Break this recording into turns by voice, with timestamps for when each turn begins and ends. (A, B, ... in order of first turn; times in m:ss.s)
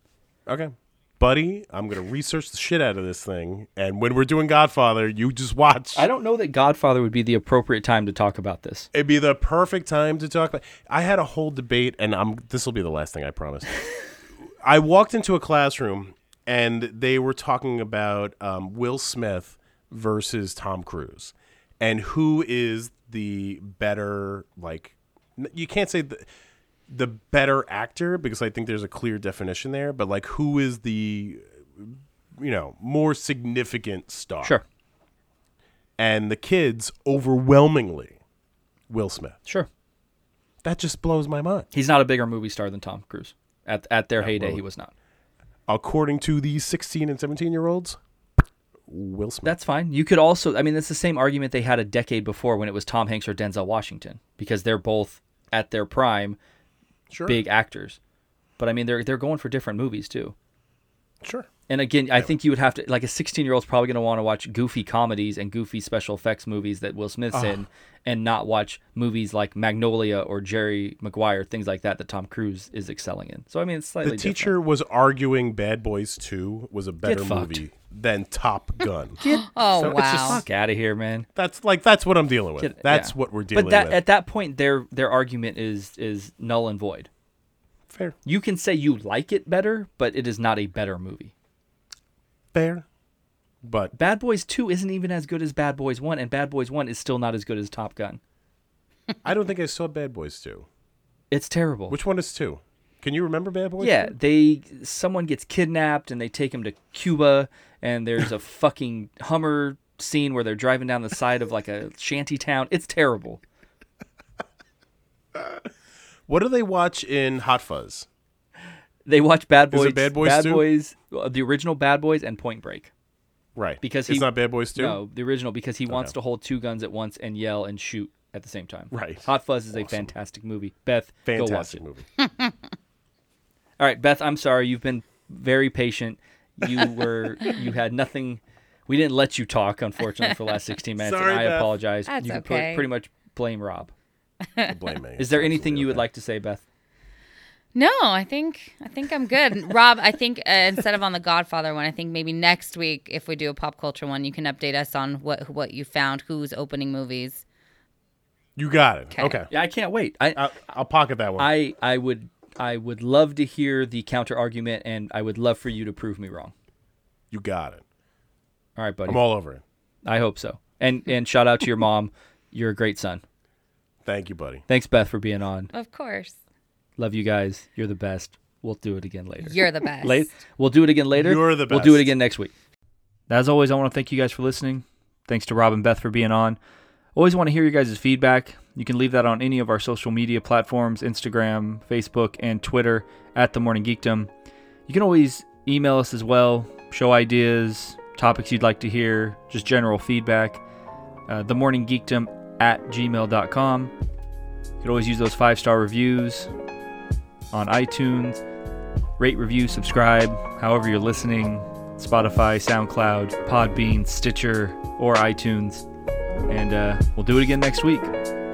0:00.5-0:06.1 A
0:06.0-0:08.9 B
0:08.9-0:13.7 A
0:14.6-0:26.3 A
0:26.9-0:34.6 A
0:36.0-0:38.2 A
0:38.9-0:39.4 A
0:40.6-0:41.7 A
0:41.7-0:44.9 B
0:44.2-0:44.6 A
0:45.7-0:48.0 A
0:48.9-0:49.5 A
0:49.4-0:56.4 B
0:57.1-0:57.4 A
0:57.3-0:58.0 B
0:58.6-1:00.4 B
1:01.2-1:01.5 A
1:01.7-1:14.5 B
1:07.3-1:07.6 A
1:14.0-1:20.5 A
1:17.0-1:17.6 B
1:19.2-1:19.5 B
1:19.3-1:20.4 C
1:20.1-1:21.3 B
1:21.4-1:24.0 A
1:22.6-1:27.1 B
1:27.9-1:28.2 A
1:28.2-1:31.3 B
1:32.5-1:32.9 A
1:33.6-1:33.9 A
1:33.9-1:38.2 B
1:39.2-1:40.7 A
1:41.3-1:42.0 B
1:41.9-1:44.1 A
1:43.8-1:53.4 B
1:56.3-1:58.1 A
1:59.1-2:02.9 B
1:59.7-2:00.7 A
2:03.6-2:05.0 A
2:03.8-2:11.8 B
2:05.9-2:06.2 A
2:08.9-2:10.1 A
2:11.3-2:12.1 A
2:12.2-2:12.5 C
2:13.8-2:23.9 B
2:21.0-2:21.7 A
2:22.1-2:22.9 C
2:24.7-2:26.1 A
2:25.2-2:26.6 B
2:27.8-2:37.4 C
2:38.6-2:39.5 A
2:39.2-2:39.4 C
2:39.5-2:40.5 B
2:40.4-2:41.5 A
2:41.4-2:46.5 B
2:47.3-2:47.8 A
2:48.8-2:49.2 B
2:49.1-2:49.6 A
2:50.1-2:53.2 B
2:54.0-2:54.6 A
2:54.7-2:55.7 B
2:55.7-2:56.4 C
2:57.0-3:02.5 B
2:59.4-3:00.3 C
3:01.2-3:02.1 A
3:03.3-3:06.6 B
3:07.2-3:14.3 B
3:14.9-3:20.6 B
3:21.3-3:23.9 B
3:24.8-3:26.5 B
3:27.5-3:28.4 B
3:29.2-3:35.8 B
3:36.5-3:38.1 B